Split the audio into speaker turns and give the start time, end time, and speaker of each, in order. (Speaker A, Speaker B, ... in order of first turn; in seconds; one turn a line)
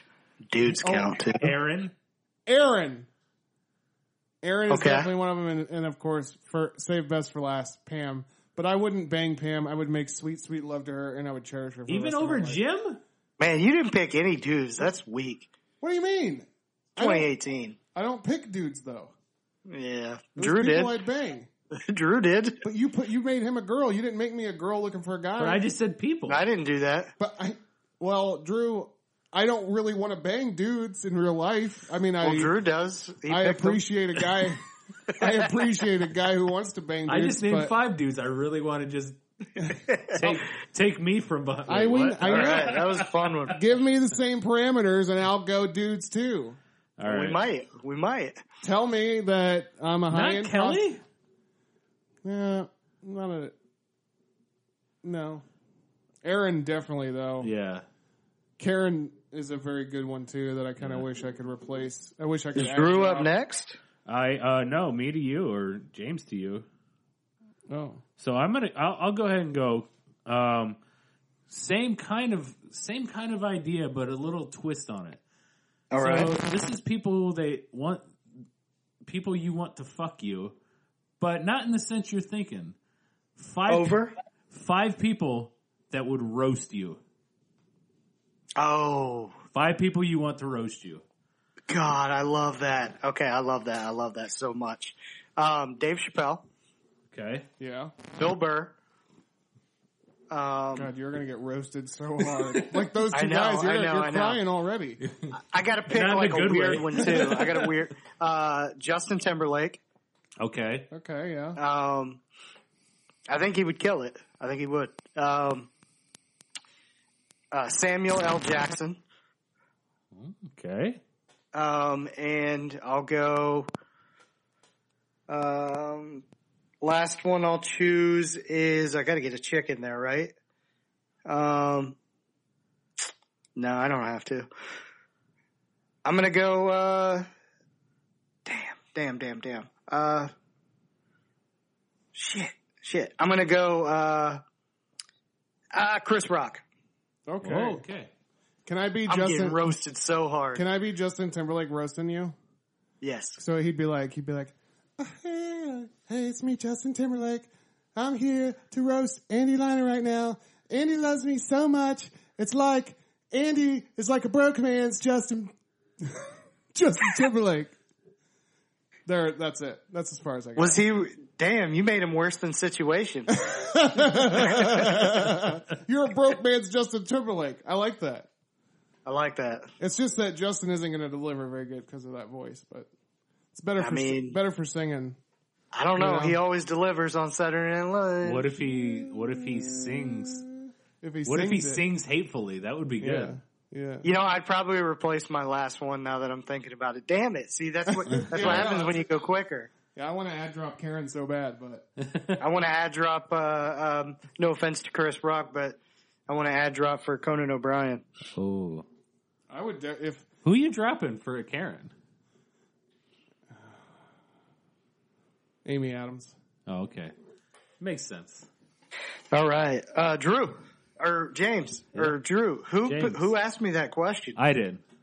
Speaker A: 0.5-1.5
Speaker B: 0.8-1.1
Speaker C: 0.9-1.9
Speaker B: 2.5-3.1
Speaker B: 4.4-12.6
Speaker A: 4.7-5.1
Speaker C: 11.9-13.0
Speaker A: 13.4-15.5
Speaker B: 15.8-17.3
Speaker A: 17.0-17.8
Speaker B: 17.9-19.1
Speaker A: 19.7-21.0
Speaker B: 20.4-21.5
Speaker A: 21.8-22.6
Speaker B: 22.6-25.6
Speaker C: 25.4-26.4
Speaker A: 26.3-27.1
Speaker B: 27.2-32.5
Speaker A: 32.2-33.8
Speaker B: 33.3-37.8
Speaker A: 35.1-35.5
Speaker C: 37.1-39.2
Speaker B: 39.6-40.4
Speaker A: 39.7-40.2
Speaker C: 40.1-43.1
Speaker B: 41.7-42.9
Speaker A: 42.3-43.6
Speaker B: 43.5-46.6
Speaker C: 47.0-47.4
Speaker A: 47.0-48.4
Speaker B: 48.6-50.8
Speaker C: 50.1-51.0
Speaker B: 52.2-53.5
Speaker B: 55.0-55.5
Speaker B: 56.2-57.5
Speaker C: 57.4-57.9
Speaker B: 58.6-63.3
Speaker C: 60.8-61.0
Speaker A: 62.5-63.8
Speaker C: 64.1-66.7
Speaker B: 67.7-68.0
Speaker C: 68.2-70.8
Speaker C: 71.5-75.2
Speaker A: 75.9-76.3
Speaker C: 76.0-78.1
Speaker C: 79.0-80.6
Speaker C: 81.2-82.8
Speaker C: 83.4-87.0
Speaker A: 83.7-84.1
Speaker A: 88.6-89.4
Speaker C: 89.5-91.0
Speaker A: 91.7-96.5
Speaker C: 97.1-97.5
Speaker B: 97.6-98.0
Speaker A: 98.2-98.8
Speaker A: 100.3-100.9
Speaker B: 100.8-105.0
Speaker C: 102.4-102.7
Speaker A: 103.1-104.4
Speaker C: 105.1-105.3
Speaker A: 105.3-109.8
Speaker C: 105.9-107.8
Speaker C: 110.4-110.9
Speaker B: 110.9-111.6
Speaker A: 111.6-112.2
Speaker A: 113.3-115.7
Speaker A: 117.5-119.0
Speaker C: 120.1-121.0
Speaker A: 121.5-123.7
Speaker A: 125.3-126.2
Speaker A: 126.8-130.3
Speaker A: 131.3-132.0
Speaker A: 133.6-134.5
Speaker A: 136.1-137.3
Speaker A: 138.4-140.3
Speaker A: 142.1-144.4
Speaker A: 145.7-146.6
Speaker B: 147.3-147.8
Speaker C: 147.4-148.1
Speaker B: 148.7-149.6
Speaker A: 149.1-150.6
Speaker B: 150.6-152.4
Speaker A: 153.0-153.4
Speaker B: 153.4-167.7
Speaker B: 169.1-170.8
Speaker A: 170.6-173.4
Speaker B: 173.3-178.3
Speaker A: 174.4-174.9
Speaker A: 179.1-179.7
Speaker B: 179.8-182.9
Speaker B: 183.5-185.2
Speaker A: 183.8-184.4
Speaker A: 185.7-188.5
Speaker B: 186.0-186.4
Speaker C: 188.2-190.5
Speaker B: 191.0-191.8
Speaker C: 191.3-193.4
Speaker B: 193.0-194.1
Speaker A: 194.0-199.7
Speaker B: 198.1-199.0
Speaker C: 198.3-198.8
Speaker B: 199.9-201.9
Speaker C: 202.0-202.4
Speaker A: 202.4-208.0
Speaker C: 208.3-208.8
Speaker B: 209.5-210.3
Speaker C: 210.4-211.9
Speaker B: 215.7-216.3
Speaker C: 216.7-217.1
Speaker C: 217.8-218.5
Speaker A: 219.3-224.4
Speaker C: 222.8-223.3
Speaker C: 224.4-224.8